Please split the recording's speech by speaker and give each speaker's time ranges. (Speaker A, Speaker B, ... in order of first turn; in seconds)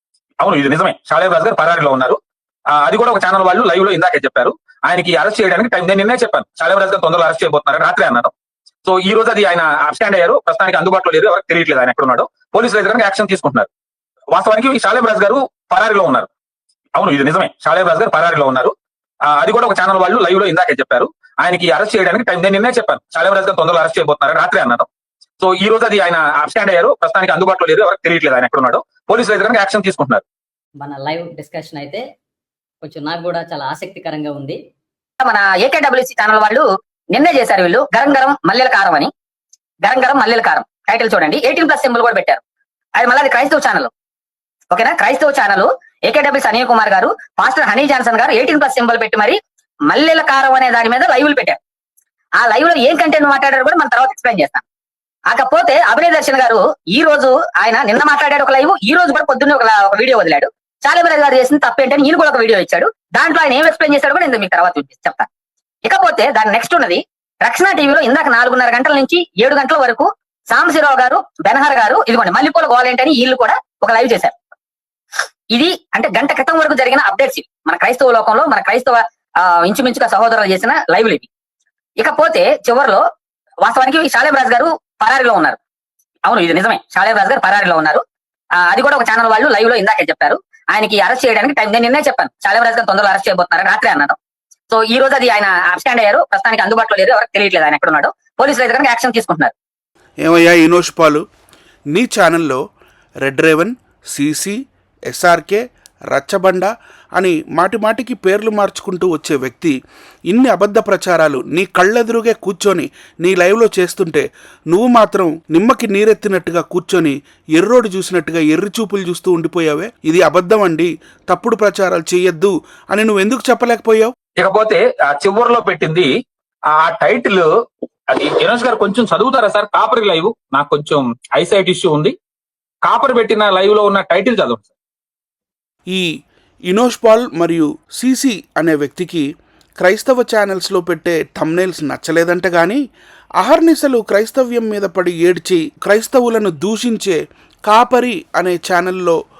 Speaker A: 0.4-2.2, 2.7-8.3, 8.8-13.7, 14.3-16.3, 16.9-18.7, 19.3-24.9, 25.4-30.2, 124.4-126.1, 126.8-127.5, 128.1-132.1, 132.8-134.7
Speaker B: 30.8-32.0, 32.8-34.6
Speaker C: 35.2-39.1, 39.8-42.4, 43.0-43.9, 44.7-51.6, 52.4-54.6, 55.3-65.3, 65.8-74.3, 75.5-81.3, 82.0-83.0, 83.6-85.6, 86.2-88.0, 88.6-94.2, 94.7-99.5
Speaker D: 100.2-101.2, 101.9-102.6, 103.2-104.6, 105.1-109.8, 110.3-124.1, 136.7-139.2, 139.8-142.8, 143.4-149.2